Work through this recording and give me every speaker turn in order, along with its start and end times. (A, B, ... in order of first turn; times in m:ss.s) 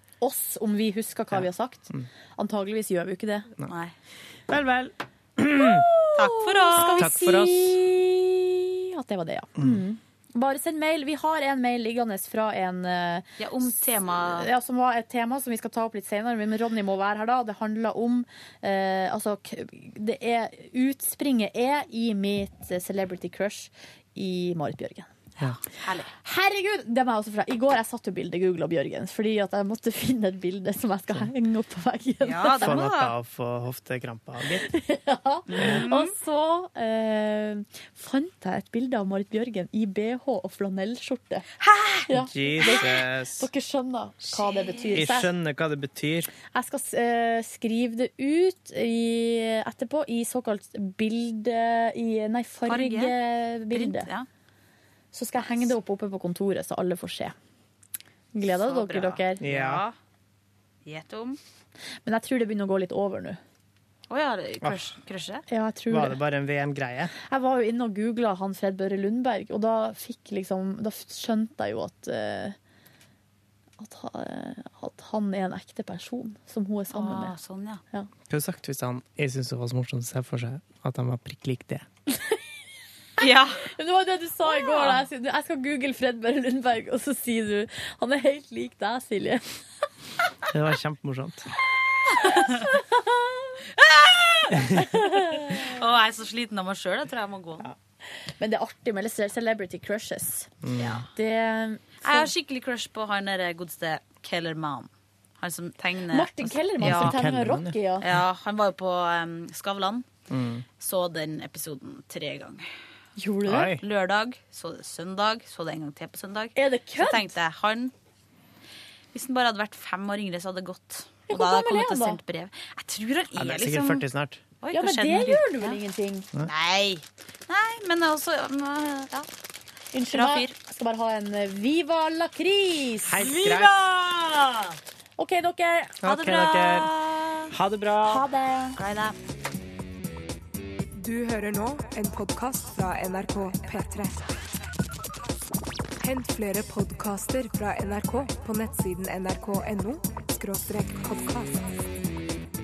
0:00.2-0:03.5 A
0:01.3-0:02.1 B
0:03.7-0:03.9 C
0:04.5-0:05.9 B
0:05.6-0:13.3 A
0:06.2-0:07.1 C
0:07.0-0:07.8 B
0:13.4-0:14.5 C
0:14.2-0:25.1 A
0:25.4-0:26.1 C
0:26.2-0:32.8 A
0:32.2-0:33.2 C
0:32.5-0:34.7 B
0:34.7-0:41.5 A
0:35.5-0:36.1 C
0:35.5-0:35.8 B
0:41.6-0:43.0 C
0:42.1-0:45.3 A
0:42.2-0:43.5 B
0:44.2-0:45.0 C
0:44.9-0:46.3 B
0:46.5-0:54.1 A
0:52.7-0:53.2 C
0:53.7-0:54.3 C
0:55.1-0:57.4 A
0:58.3-0:59.4 A
0:58.5-1:00.0 C
0:59.4-0:59.8 B
1:00.8-1:01.4 C
1:02.0-1:03.4 A
1:04.1-1:05.4 C
1:04.6-1:04.9 B
1:05.5-1:06.2 A
1:05.9-1:07.1 B
1:07.2-1:12.6 A
1:13.8-1:17.4 A
1:16.9-1:17.8 C
1:18.3-1:21.9 B
1:23.2-1:23.7 C
1:23.6-1:29.4 A
1:24.4-1:25.0 C
1:30.5-1:31.5 B
1:32.1-1:33.6 A
1:32.2-1:32.7 C
1:33.8-1:37.7 C
1:34.5-1:35.7 A
1:34.6-1:34.9 B
1:38.4-1:40.5 A
1:40.6-1:41.0 B
1:40.8-1:41.1 C
1:41.1-1:42.3 A
1:42.0-1:47.3 C
1:46.1-1:48.1 A
1:46.8-1:47.8 B
1:48.0-1:50.1 C
1:50.3-1:50.7 B
1:50.8-1:52.6 C
1:53.2-1:53.8 A
1:53.5-1:53.8 B
1:53.8-1:57.9 C
1:56.6-1:57.4 A
1:59.1-2:04.1 C
2:01.3-2:02.2 A
2:03.4-2:04.4 B
2:04.6-2:05.8 C
2:04.7-2:06.3 A
2:06.4-2:09.3 C
2:09.9-2:13.3 A
2:10.1-2:10.6 C
2:13.0-2:13.8 B
2:13.2-2:14.8 C
2:15.2-2:16.0 A
2:16.0-2:16.9 B
2:16.0-2:17.5 C
2:17.5-2:18.3 B
2:18.0-2:18.8 A
2:18.8-2:19.2 C
2:20.9-2:24.3 D
2:26.0-2:31.7 D